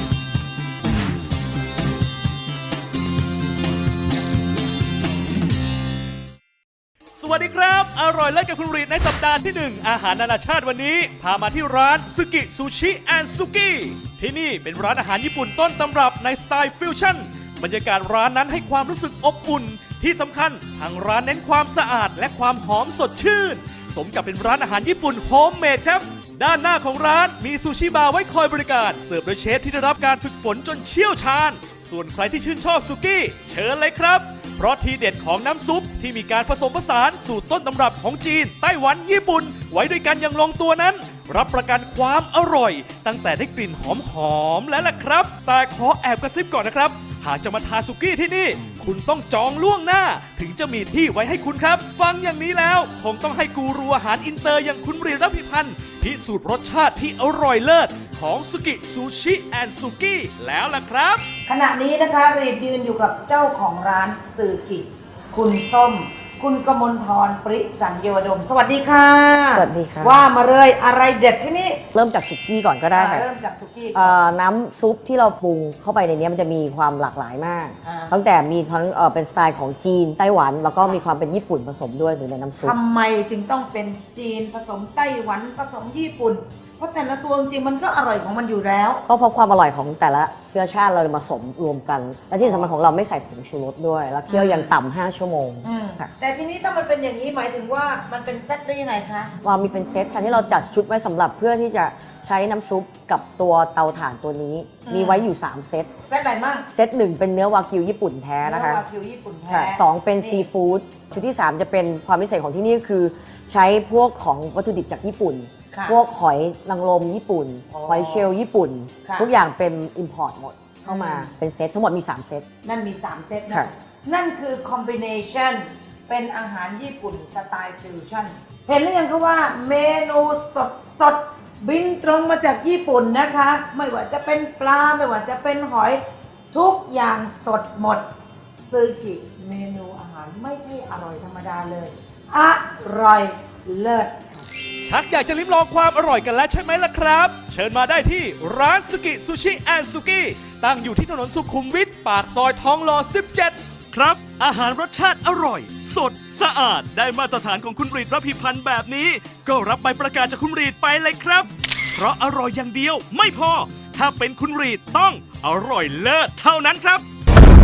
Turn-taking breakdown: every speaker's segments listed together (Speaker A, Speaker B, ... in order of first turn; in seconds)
Speaker A: 7.2-61.2, 144.8-167.1
Speaker B: 61.5-71.8, 72.9-74.2, 77.8-78.2, 82.6-89.0, 92.4-92.8, 94.3-94.7, 95.6-99.3, 104.9-105.3, 106.1-106.7, 108.4-110.5, 115.7-116.0, 117.7-118.3, 119.0-119.3, 120.8-121.4, 122.6-136.0, 136.5-138.1, 138.6-144.5
Speaker C: 69.5-70.2, 71.9-73.3, 74.0-82.8, 89.1-96.1, 99.4-105.9, 106.7-108.8, 109.5-122.5